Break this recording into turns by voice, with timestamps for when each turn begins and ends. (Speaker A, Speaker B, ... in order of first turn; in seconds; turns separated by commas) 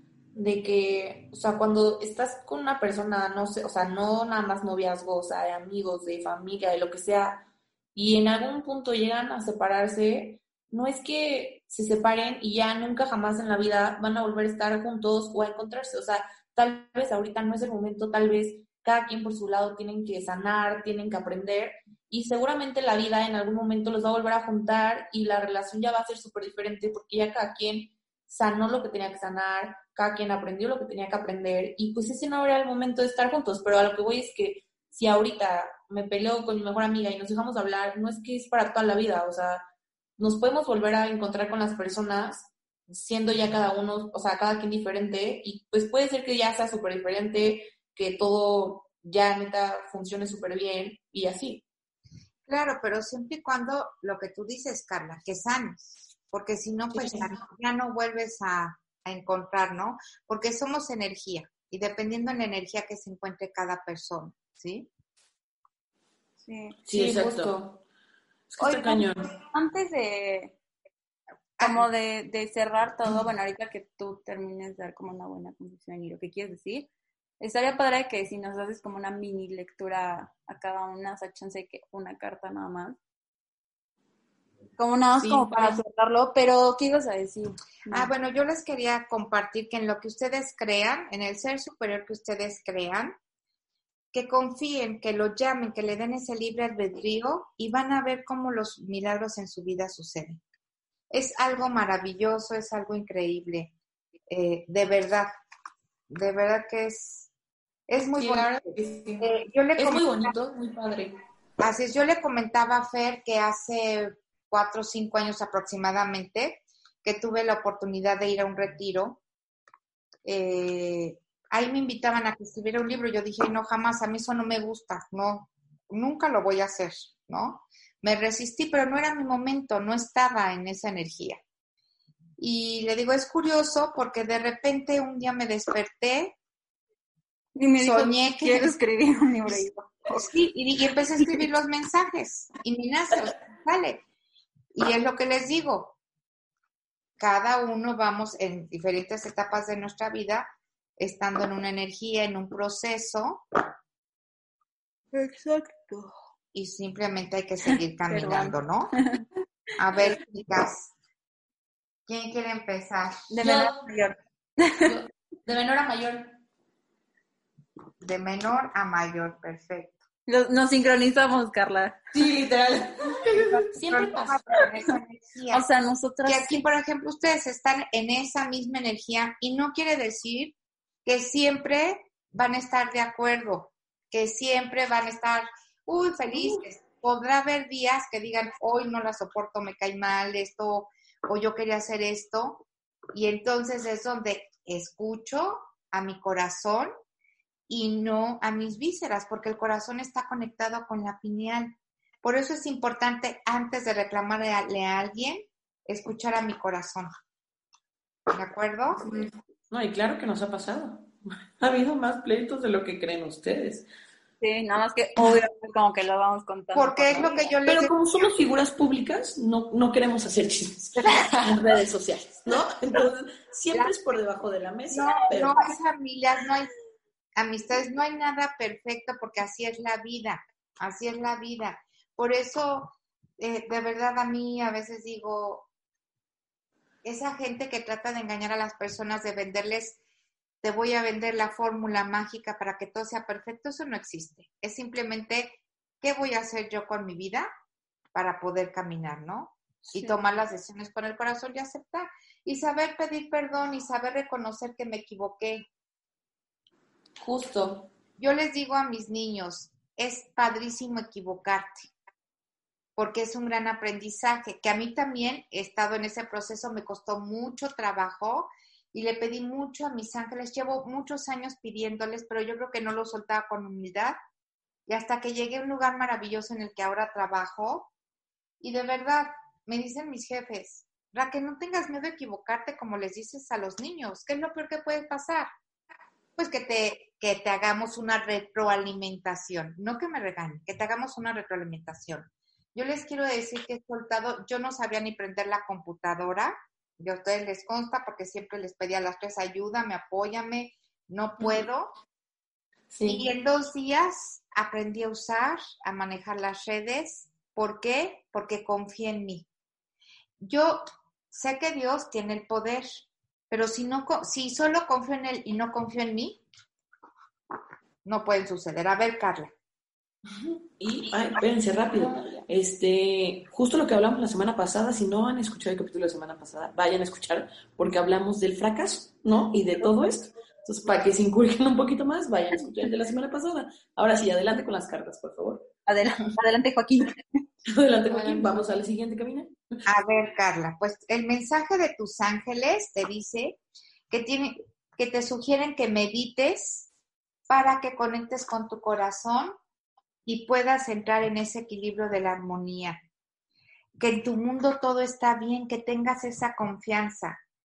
Speaker A: 0.3-39.6, Speaker A: 40.2-51.6, Speaker B: 52.5-64.9, Speaker C: 66.4-66.8, Speaker D: 66.9-67.6, Speaker A: 66.9-67.8, Speaker D: 68.5-69.3, Speaker C: 68.6-70.6, Speaker C: 71.6-76.9, Speaker B: 71.6-71.9, Speaker C: 77.4-83.0, Speaker C: 84.8-88.1, Speaker B: 85.2-85.8, Speaker B: 87.9-93.2, Speaker B: 94.1-100.4, Speaker B: 101.1-103.7, Speaker B: 104.3-105.3, Speaker B: 106.1-107.3, Speaker B: 107.9-110.3, Speaker A: 108.2-111.2, Speaker B: 111.6-119.2, Speaker B: 120.2-131.4, Speaker B: 132.4-136.4, Speaker C: 137.6-140.3, Speaker B: 137.8-138.8, Speaker B: 140.1-144.0, Speaker B: 144.7-146.0, Speaker B: 147.2-150.4, Speaker B: 151.0-153.4, Speaker C: 155.1-156.2, Speaker B: 156.5-158.9, Speaker C: 158.1-159.2, Speaker B: 159.8-160.9, Speaker B: 162.1-163.3, Speaker C: 163.3-164.9, Speaker A: 163.4-163.9, Speaker A: 164.8-166.4, Speaker B: 168.0-170.0, Speaker C: 170.3-172.0, Speaker A: 172.1-174.4, Speaker B: 173.4-175.7, Speaker C: 175.5-176.7, Speaker B: 176.3-196.9, Speaker B: 197.7-207.1, Speaker B: 208.3-209.3, Speaker D: 209.7-213.9, Speaker C: 214.4-217.5, Speaker B: 216.7-217.9, Speaker D: 217.7-225.7, Speaker B: 224.9-226.7, Speaker B: 227.4-235.7, Speaker B: 237.0-240.0, Speaker B: 240.6-247.5, Speaker B: 248.1-255.7, Speaker A: 257.2-257.9, Speaker B: 258.2-261.9, Speaker B: 263.0-274.2, Speaker B: 274.9-277.9, Speaker B: 278.6-285.5, Speaker B: 286.4-301.9, Speaker A: 302.9-303.3, Speaker B: 303.1-309.5, Speaker B: 310.4-316.4, Speaker B: 318.1-319.5, Speaker D: 320.8-335.7, Speaker A: 322.0-322.4, Speaker C: 335.9-337.2, Speaker D: 337.7-339.7, Speaker A: 338.1-338.7, Speaker B: 339.9-343.6, Speaker B: 344.1-346.9, Speaker B: 347.5-349.6, Speaker B: 350.3-353.0, Speaker B: 354.0-357.4